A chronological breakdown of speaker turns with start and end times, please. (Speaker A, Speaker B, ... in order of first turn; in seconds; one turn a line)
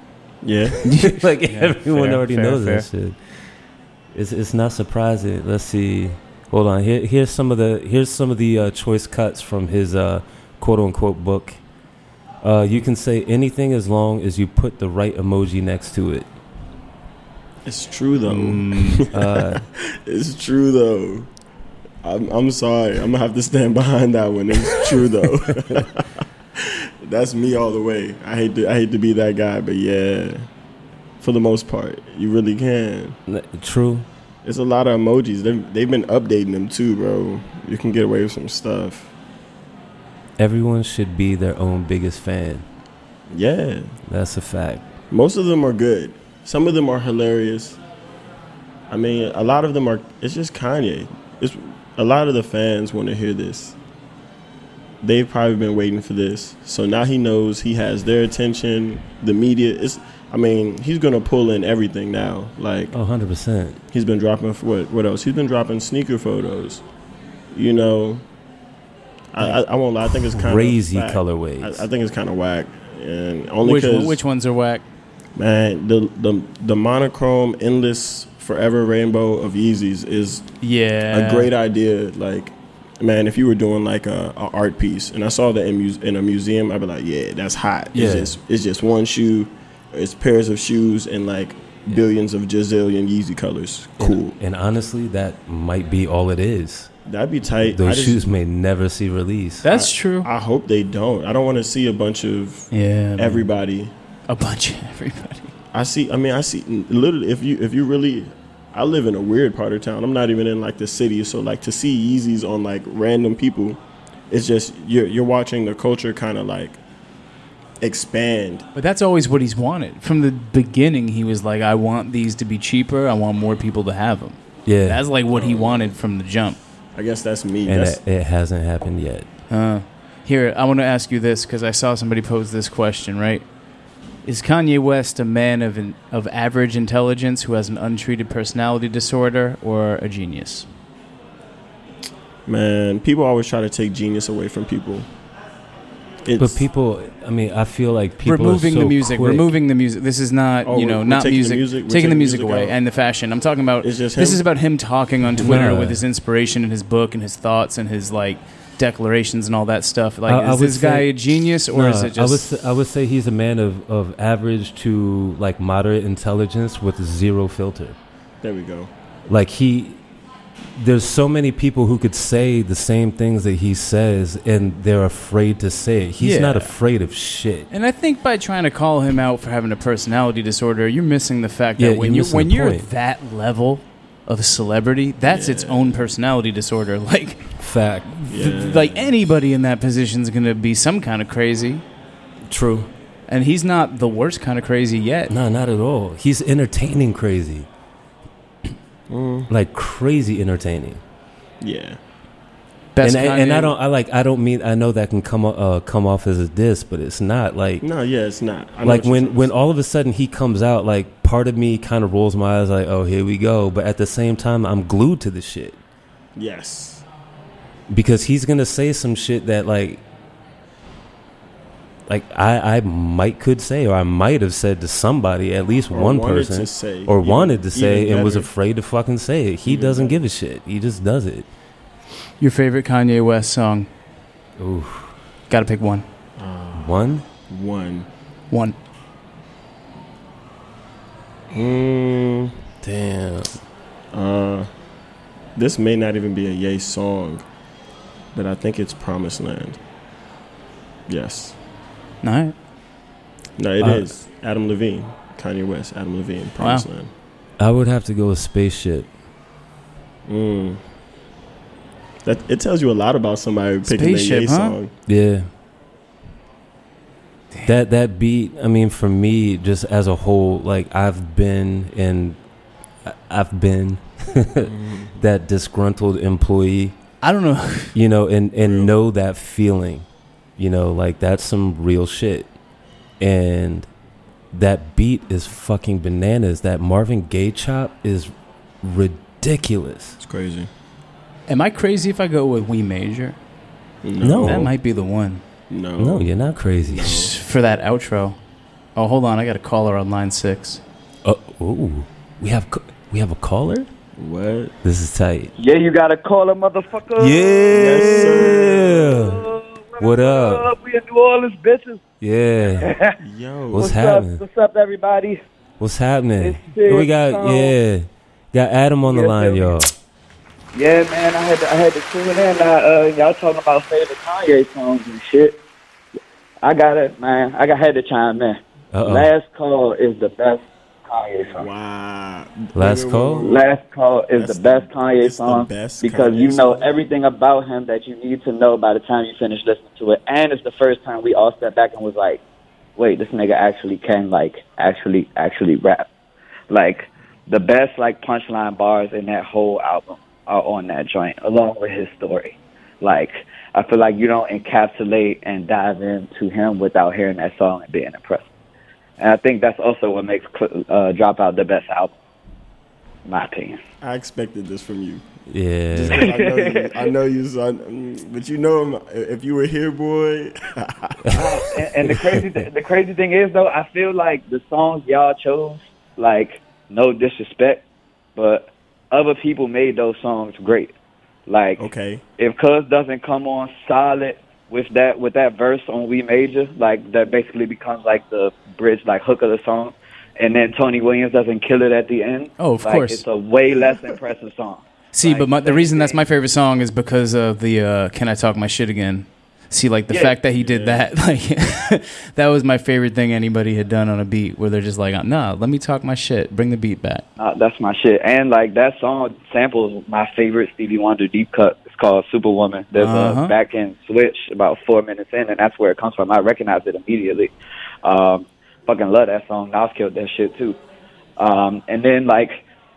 Speaker A: 0.4-0.8
Speaker B: 0.7-3.2
Speaker C: 0.8-2.9
Speaker B: 4.1-11.6
Speaker B: 12.4-16.3
Speaker A: 17.6-21.3
Speaker C: 18.3-19.1
Speaker B: 19.1-19.6
Speaker A: 22.0-30.5
Speaker B: 25.2-25.9
Speaker A: 31.2-33.2
Speaker B: 33.3-34.1
Speaker A: 34.4-39.1
Speaker B: 40.4-42.6
Speaker A: 43.3-43.9
Speaker B: 44.1-44.9
Speaker A: 45.1-47.8
Speaker A: 48.9-53.8
Speaker A: 55.0-63.0
Speaker B: 62.9-63.8
Speaker A: 63.9-66.8
Speaker A: 67.5-68.2
Speaker A: 69.3-74.2
Speaker B: 70.2-71.8
Speaker C: 73.6-74.8
Speaker A: 75.4-80.5
Speaker C: 80.6-81.5
Speaker A: 81.1-94.4
Speaker B: 87.9-88.3
Speaker B: 94.0-96.9
Speaker A: 97.1-98.3
Speaker B: 97.8-99.7
Speaker C: 99.6-100.3
Speaker A: 99.7-103.9
Speaker C: 102.7-103.5
Speaker C: 104.3-105.5
Speaker A: 105.7-116.8
Speaker A: 117.8-118.7
Speaker C: 118.8-126.6
Speaker B: 124.7-125.0
Speaker A: 125.3-126.0
Speaker A: 127.0-128.0
Speaker B: 127.7-129.3
Speaker C: 129.5-133.5
Speaker C: 134.2-140.7
Speaker A: 142.5-145.1
Speaker A: 146.2-146.7
Speaker B: 146.4-149.5
Speaker C: 148.2-162.4
Speaker A: 150.6-152.8
Speaker A: 153.8-154.4
Speaker B: 155.4-156.0
Speaker A: 155.4-155.7
Speaker B: 160.3-161.2
Speaker B: 161.7-168.0
Speaker A: 168.4-168.9
Speaker B: 169.3-170.0
Speaker B: 170.8-177.7
Speaker C: 176.2-176.7
Speaker C: 177.7-191.8
Speaker B: 181.8-182.9
Speaker A: 185.2-186.1
Speaker B: 187.6-188.1
Speaker A: 188.3-189.2
Speaker B: 192.5-192.9
Speaker C: 193.3-195.3
Speaker B: 195.3-197.7
Speaker A: 199.1-199.5
Speaker B: 199.5-201.0
Speaker A: 201.6-202.0
Speaker C: 202.9-203.7
Speaker B: 203.0-207.8
Speaker A: 207.8-209.5
Speaker B: 208.8-215.8
Speaker A: 216.3-217.1
Speaker B: 217.9-220.0
Speaker B: 222.1-231.5
Speaker A: 225.9-228.5
Speaker A: 229.7-230.2
Speaker C: 232.4-233.9
Speaker B: 234.6-235.1
Speaker C: 235.5-236.1
Speaker A: 236.4-238.1
Speaker B: 236.8-237.2
Speaker C: 238.5-238.8
Speaker A: 241.5-242.6
Speaker B: 242.8-243.6
Speaker A: 244.1-244.7
Speaker A: 245.6-247.4
Speaker A: 248.3-249.8
Speaker A: 251.1-251.6
Speaker C: 252.2-252.6
Speaker A: 253.6-257.1
Speaker C: 256.6-256.9
Speaker B: 257.6-259.1
Speaker A: 260.3-260.8
Speaker A: 262.2-264.9
Speaker C: 263.9-264.8
Speaker B: 265.1-265.5
Speaker B: 267.6-272.4
Speaker B: 273.1-277.0
Speaker A: 274.6-275.2
Speaker C: 277.2-277.9
Speaker B: 277.9-280.1
Speaker A: 278.6-278.9
Speaker B: 280.6-282.5
Speaker B: 283.2-283.9
Speaker B: 284.5-290.2
Speaker A: 290.2-290.7
Speaker C: 291.5-293.4
Speaker A: 294.0-294.7
Speaker B: 294.2-294.7
Speaker C: 294.4-295.4
Speaker A: 295.7-296.3
Speaker B: 296.0-297.3
Speaker A: 296.9-297.3
Speaker C: 297.0-298.4
Speaker C: 299.0-300.8
Speaker B: 301.2-303.9
Speaker A: 304.2-304.8
Speaker B: 304.8-305.5
Speaker D: 305.6-312.0
Speaker B: 307.2-309.4
Speaker A: 307.7-309.4
Speaker B: 310.0-310.7
Speaker B: 312.2-312.9
Speaker D: 312.8-313.2
Speaker A: 313.2-313.9
Speaker B: 313.7-314.4
Speaker D: 313.7-315.4
Speaker B: 315.8-319.9
Speaker D: 316.4-317.8
Speaker D: 319.1-319.8
Speaker D: 320.7-325.6
Speaker D: 326.6-331.7
Speaker B: 328.9-329.3
Speaker A: 331.5-333.6
Speaker B: 332.8-333.5
Speaker D: 333.4-342.4
Speaker A: 334.4-336.9
Speaker D: 343.0-346.1
Speaker D: 346.7-358.5
Speaker D: 359.2-362.1
Speaker D: 363.2-363.8
Speaker A: 364.0-365.2
Speaker B: 365.5-366.3
Speaker A: 365.9-371.5
Speaker D: 366.1-366.9
Speaker D: 371.3-377.8
Speaker D: 378.4-380.9
Speaker D: 381.5-381.9
Speaker A: 381.8-382.2
Speaker D: 382.4-396.2
Speaker C: 392.6-393.2
Speaker C: 395.1-407.2
Speaker A: 400.6-401.1
Speaker D: 407.4-417.5
Speaker C: 413.0-413.5
Speaker D: 418.0-420.8
Speaker D: 421.4-422.6